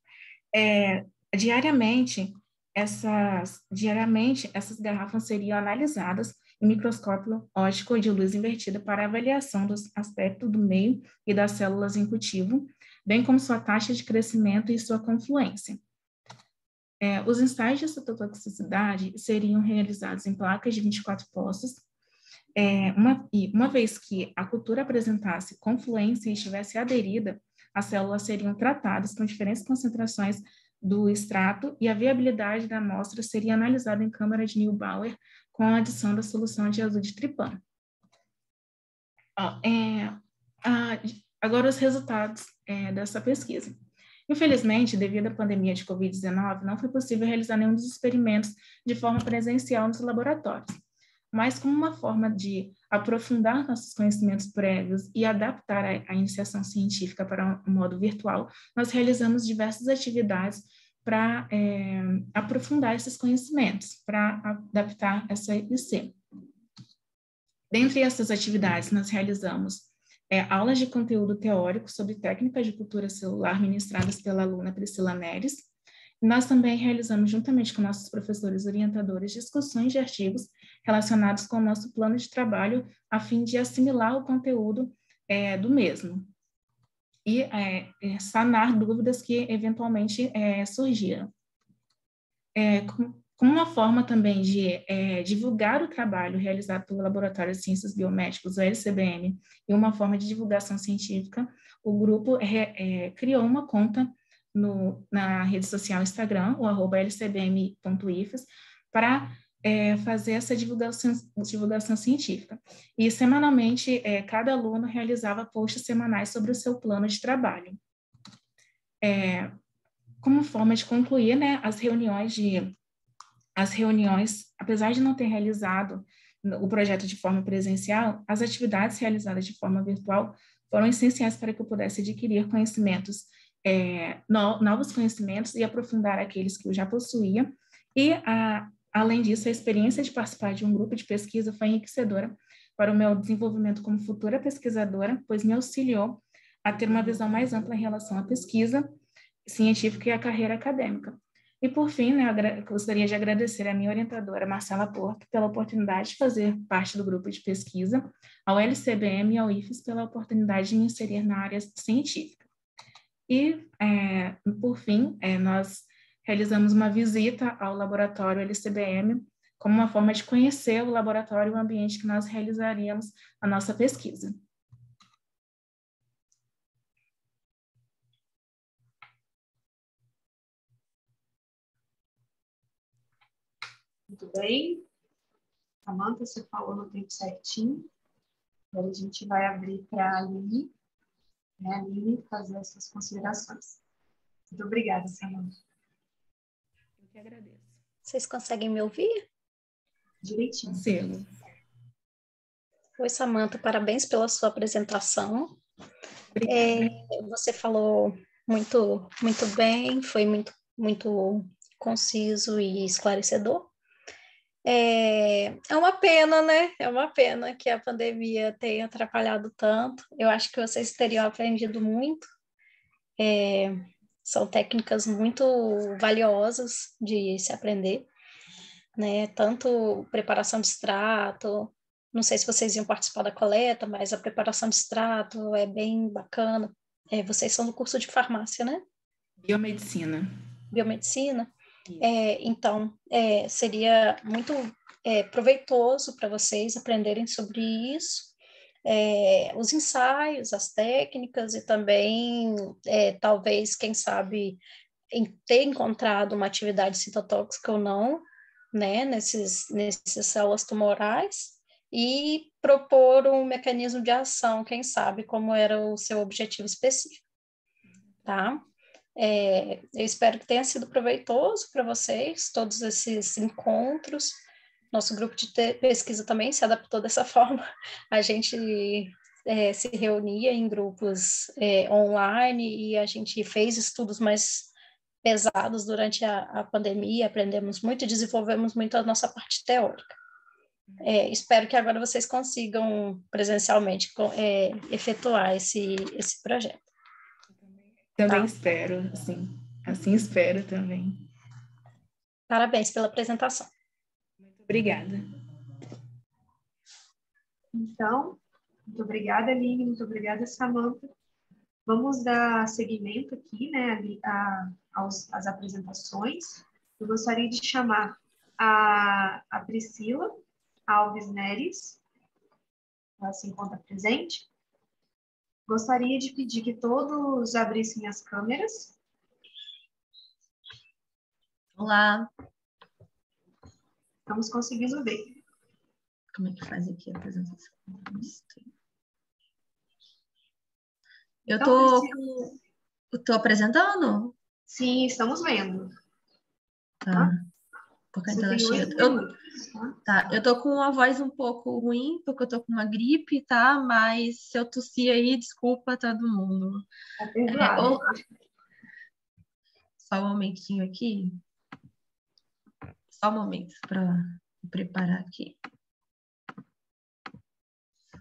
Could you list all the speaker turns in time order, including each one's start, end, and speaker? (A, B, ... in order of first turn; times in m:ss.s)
0:00.5-0:15.8 A
0:17.0-0:21.8 A
0:22.6-0:37.6 A
0:39.4-0:43.8 A
0:44.3-0:50.8 A
0:51.3-1:06.2 A
1:07.7-1:15.7 A
1:16.2-1:26.3 A
1:27.2-1:31.3 A
1:32.5-1:57.8 A
1:59.0-1:59.5 A
2:00.2-2:02.8 A
2:03.6-2:42.4 A
2:43.3-2:54.4 A
3:04.1-3:04.8 B
3:05.8-3:07.9 B
3:08.7-3:10.7 B
3:11.6-3:13.8 B
3:14.5-3:15.6 B
3:17.0-3:17.8 A
3:18.0-3:19.2 C
3:20.2-3:20.8 B
3:20.7-3:21.3 A
3:23.0-3:25.6 C
3:26.3-3:26.9 A
3:26.4-3:33.7 C
3:34.6-3:42.3 C
3:43.2-3:48.1 C
3:49.0-3:58.8 C
3:59.4-4:00.3 A
4:00.7-4:01.5 C
4:02.0-4:08.3 C
4:08.8-4:27.2 C
4:28.2-4:28.6 C
4:29.2-4:34.4 C
4:34.9-4:44.7 C
4:45.2-4:50.2 C
4:51.0-4:56.9 C
4:57.6-5:01.2 A
5:02.5-5:03.7 C
5:04.4-5:05.3 A
5:07.7-5:11.1 B
5:11.8-5:22.0 B
5:23.2-5:24.5 B
5:25.7-5:29.0 B
5:31.8-5:32.3 D
5:34.3-5:35.4 B
5:36.3-5:38.6 D
5:41.5-5:42.2 D
5:41.6-5:42.5 B
5:43.1-5:44.3 D
5:44.7-5:45.9 B
5:47.0-5:47.4 D
5:48.1-5:49.2 D
5:48.3-5:50.0 B
5:50.0-5:56.8 D
5:57.2-5:58.2 B
5:57.5-5:58.0 D
6:00.0-6:01.4 D
6:03.1-6:05.6 D